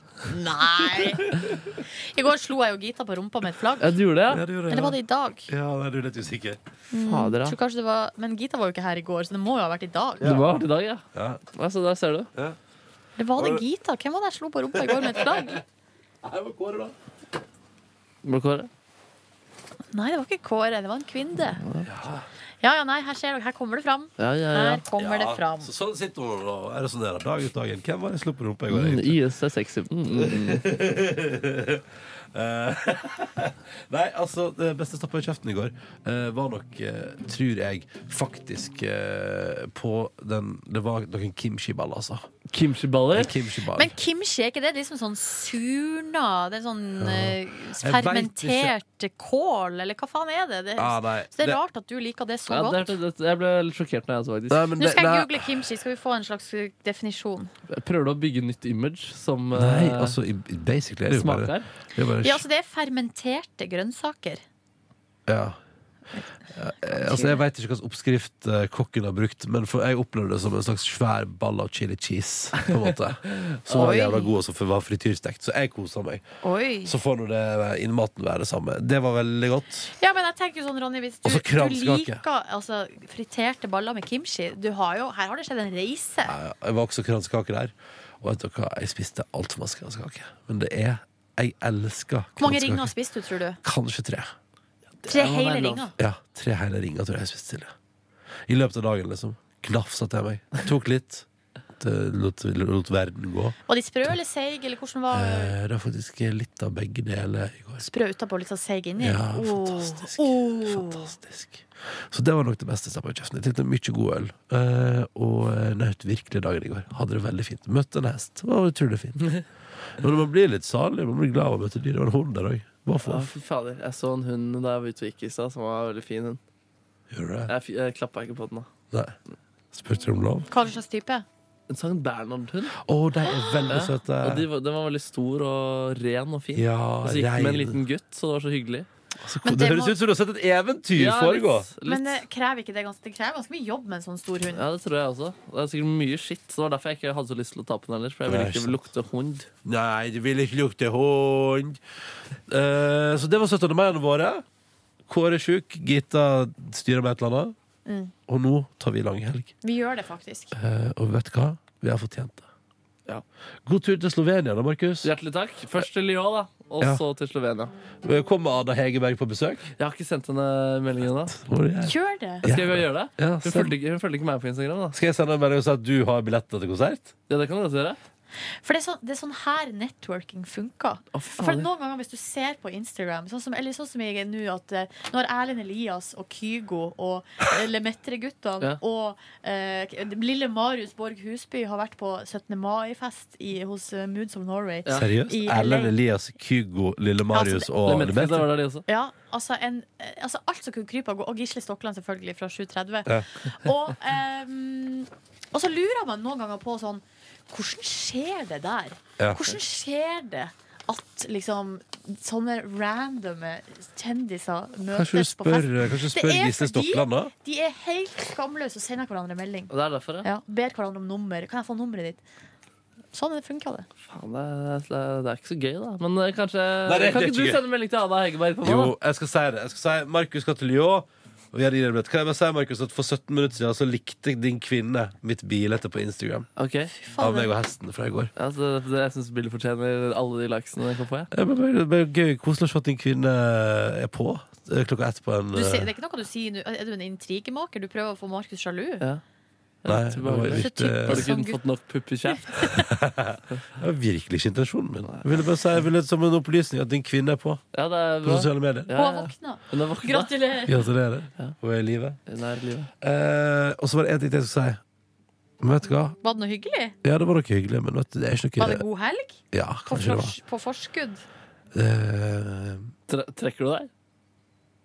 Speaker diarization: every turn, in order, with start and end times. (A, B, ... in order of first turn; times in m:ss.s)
0:00.3-0:04.0 A
0:00.9-0:01.6 B
0:03.8-0:04.5 C
0:04.3-0:06.6 B
0:04.7-0:05.5 A
0:06.9-0:10.3 A
0:07.0-0:07.6 C
0:10.2-0:10.5 B
0:10.2-0:12.3 C
0:11.1-0:11.4 B
0:13.2-0:15.6 A
0:13.4-0:13.6 B
0:14.7-0:15.6 B
0:16.2-0:16.9 B
0:18.2-0:18.7 C
0:19.9-0:21.6 A
0:21.6-0:21.9 C
0:21.8-0:22.3 B
0:22.6-0:25.7 A
0:24.2-0:24.8 C
0:25.0-0:29.2 B
0:28.7-0:30.6 C
0:30.1-0:42.3 B
0:42.5-0:43.4 C
0:43.1-0:43.9 B
0:43.7-0:53.0 A
0:47.0-0:48.7 B
0:50.8-0:51.6 B
0:52.5-0:54.7 C
0:54.5-0:55.6 B
0:54.8-0:57.5 A
0:57.7-1:00.2 C
0:59.5-1:02.4 B
1:01.1-1:01.7 C
1:02.2-1:04.4 A
1:05.3-1:05.6 B
1:06.5-1:16.2 B
1:06.8-1:07.4 A
1:13.7-1:14.3 A
1:16.4-1:17.0 A
1:16.8-1:19.9 B
1:20.0-1:26.3 A
1:21.2-1:22.2 B
1:26.2-1:32.9 B
1:32.4-1:33.6 A
1:33.6-1:34.3 B
1:35.0-1:35.9 C
1:35.1-1:35.9 A
1:36.0-1:37.7 B
1:38.5-1:41.2 B
1:41.8-1:43.6 B
1:43.7-1:45.6 A
1:45.1-1:47.8 B
1:47.8-1:51.1 A
1:49.0-1:59.4 B
2:00.0-2:03.3 B
2:03.0-2:06.4 C
2:07.1-2:07.5 B
2:07.5-2:08.7 C
2:09.7-2:10.5 B
2:10.5-2:11.2 A
2:11.7-2:12.8 C
2:12.8-2:14.5 B
2:13.3-2:13.6 A
2:13.7-2:18.9 C
2:16.5-2:17.8 B
2:19.2-2:21.7 B
2:19.4-2:20.0 A
2:20.9-2:22.2 C
2:21.8-2:24.6 A
2:24.5-2:29.5 C
2:28.3-2:28.8 B
2:29.6-2:31.8 B
2:32.5-2:34.4 B
2:35.1-2:37.5 B
2:37.8-2:38.1 A
2:38.3-2:39.5 B
2:39.6-2:40.6 A
2:40.5-2:42.4 B
2:43.6-2:45.1 B
2:45.0-2:47.7 C
2:48.0-2:49.7 B
2:49.8-2:51.4 C
2:51.3-2:53.7 B
2:51.8-2:52.4 A
2:52.4-2:55.0 C
2:54.9-2:57.1 B
2:57.3-2:58.0 C
2:58.6-3:15.9 A
3:01.1-3:01.7 C
3:14.9-3:18.5 B
3:17.3-3:17.7 A
3:17.8-3:18.8 C
3:18.9-3:39.7 A
3:29.2-3:29.4 B
3:34.9-3:37.3 B
3:39.7-3:40.3 C
3:40.2-3:42.2 A
3:43.1-3:43.9 A
3:44.1-3:48.9 C
3:46.8-3:47.6 B
3:48.6-3:56.5 B
3:56.6-3:56.9 C
3:56.9-3:57.5 A
3:57.1-3:58.3 B
3:58.4-4:01.3 C
4:01.3-4:05.9 B
4:05.5-4:09.0 A
4:09.8-4:12.7 C
4:09.8-4:11.3 B
4:10.5-4:11.6 A
4:12.3-4:12.9 A
4:12.7-4:17.6 B
4:17.7-4:20.3 C
4:18.2-4:18.9 B
4:18.9-4:20.8 A
4:20.6-4:22.2 B
4:22.3-4:22.9 C
4:23.0-4:24.8 B
4:25.6-4:26.2 B
4:26.2-4:26.9 A
4:27.0-4:28.8 B
4:28.6-4:31.2 A
4:29.5-4:30.4 B
4:31.7-4:32.9 B
4:33.1-4:33.9 C